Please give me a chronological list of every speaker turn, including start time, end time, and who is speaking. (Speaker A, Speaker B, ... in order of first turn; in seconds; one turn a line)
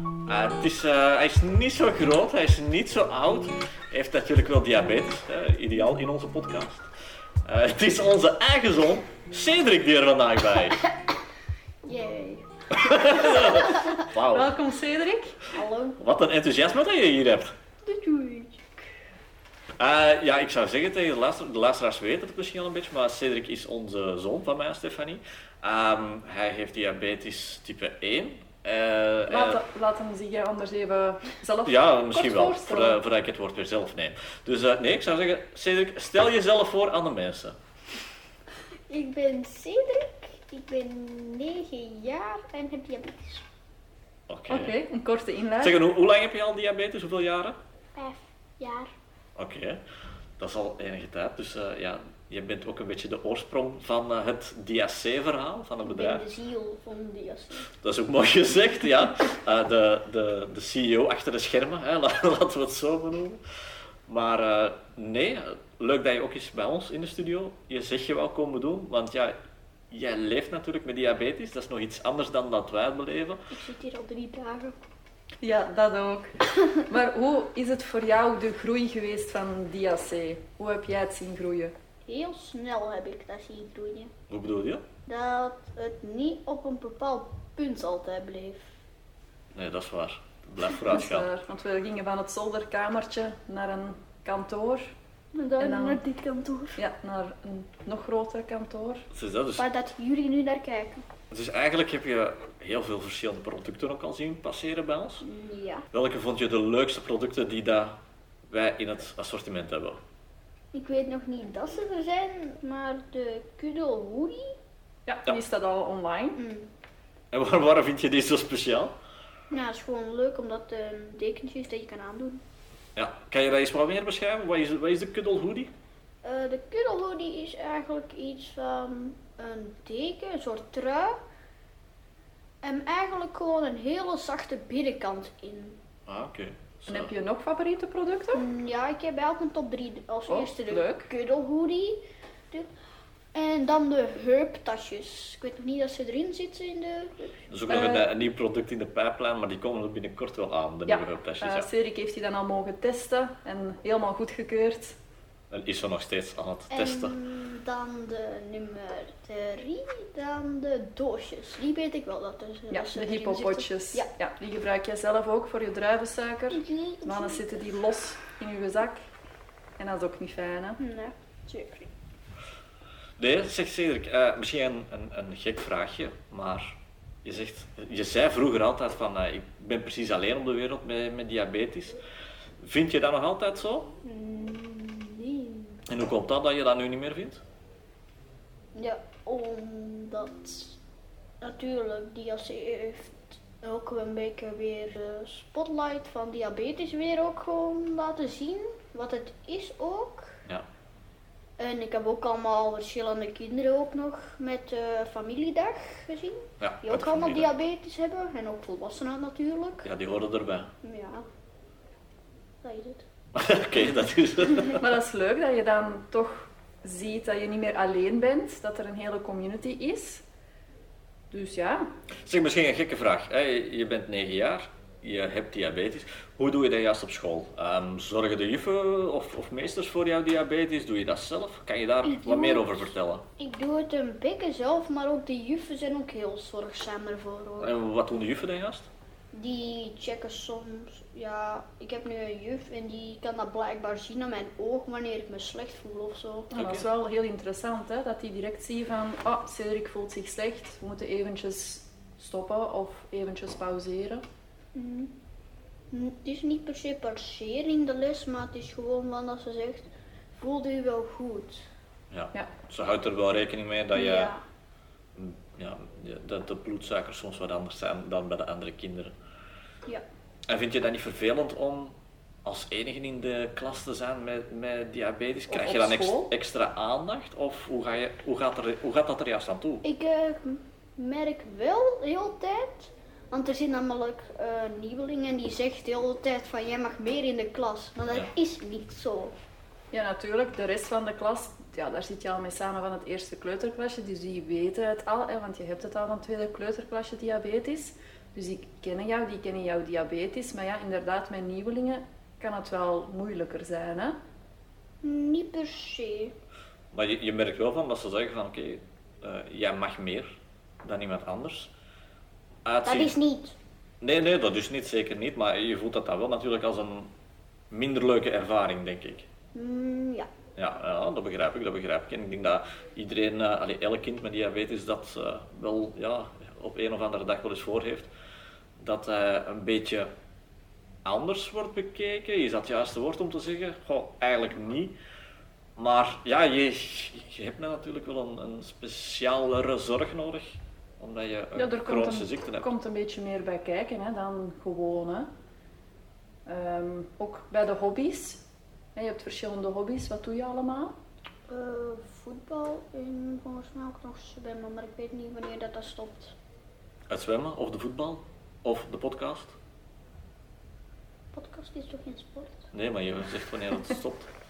Speaker A: 0.3-6.9
Speaker A: 7.5-10.8
Speaker B: 11.8-12.5
Speaker A: 12.7-14.5
Speaker B: 13.2-13.9
Speaker C: 14.2-15.4
Speaker B: 15.5-16.0
Speaker A: 16.0-17.5
Speaker B: 17.8-18.8
Speaker A: 19.8-29.6
Speaker C: 29.3-33.0
Speaker A: 31.6-37.6
Speaker B: 38.9-43.5
Speaker A: 44.3-44.8
Speaker C: 44.5-45.9
Speaker A: 45.6-47.6
Speaker B: 48.0-48.9
Speaker A: 49.4-49.8
Speaker A: 50.4-56.3
Speaker B: 55.9-57.7
Speaker A: 57.7-63.4
Speaker A: 64.1-69.3
Speaker A: 69.9-73.4
Speaker B: 73.5-74.8
Speaker C: 75.4-76.3
Speaker C: 76.8-81.7
Speaker B: 82.1-84.1
Speaker A: 84.3-84.8
Speaker B: 85.1-88.7
Speaker A: 89.5-91.3
Speaker C: 90.9-95.0
Speaker B: 95.3-96.8
Speaker C: 95.6-96.0
Speaker C: 96.8-99.0
Speaker A: 99.1-99.7
Speaker B: 99.6-101.0
Speaker A: 101.3-105.2
Speaker B: 105.2-105.8
Speaker A: 105.9-108.0
Speaker A: 108.5-110.0
Speaker B: 110.7-114.5
Speaker C: 115.1-116.4
Speaker B: 116.4-116.7
Speaker A: 117.3-118.9
Speaker B: 119.5-122.4
Speaker A: 123.0-125.7
Speaker B: 126.2-131.2
Speaker B: 132.6-135.8
Speaker A: 136.1-137.1
Speaker C: 136.9-138.4
Speaker B: 138.3-142.7
Speaker C: 140.3-141.1
Speaker B: 143.3-147.5
Speaker A: 147.5-151.7
Speaker C: 147.7-148.1
Speaker C: 150.9-155.0
Speaker A: 155.5-157.2
Speaker B: 156.7-164.1
Speaker C: 162.7-169.0
Speaker B: 166.5-167.5
Speaker C: 169.8-170.8
Speaker B: 170.8-171.9
Speaker A: 173.2-182.0
Speaker A: 182.6-183.9
Speaker B: 184.0-185.8
Speaker A: 185.9-187.4
Speaker B: 188.8-190.8
Speaker B: 191.4-200.3
Speaker B: 201.6-209.9
Speaker A: 206.6-207.5
Speaker A: 209.8-210.7
Speaker B: 210.8-211.2
Speaker B: 212.6-213.1
Speaker A: 213.3-214.8
Speaker C: 214.7-220.2
Speaker C: 221.3-221.8
Speaker A: 222.2-233.2
Speaker B: 232.0-237.7
Speaker A: 237.6-238.9
Speaker B: 239.3-246.5
Speaker C: 246.5-254.2
Speaker A: 246.5-246.9
Speaker B: 254.8-255.1
Speaker B: 255.9-261.6
Speaker A: 262.1-264.3
Speaker B: 263.9-264.4
Speaker A: 265.2-269.1
Speaker A: 270.5-279.8
Speaker C: 275.5-276.3
Speaker B: 279.8-289.3
Speaker C: 289.9-304.2
Speaker B: 305.0-306.3
Speaker A: 306.9-311.7
Speaker A: 312.6-313.2
Speaker B: 312.9-313.6
Speaker A: 314.0-317.1
Speaker A: 317.7-319.3
Speaker B: 319.5-320.3
Speaker A: 320.6-328.1
Speaker A: 328.8-330.1
Speaker A: 331.1-334.9
Speaker A: 335.8-342.7
Speaker C: 341.6-345.3
Speaker C: 346.5-348.4
Speaker C: 348.9-350.9
Speaker B: 351.5-356.4
Speaker A: 357.1-359.6
Speaker B: 361.3-362.6
Speaker A: 362.7-364.3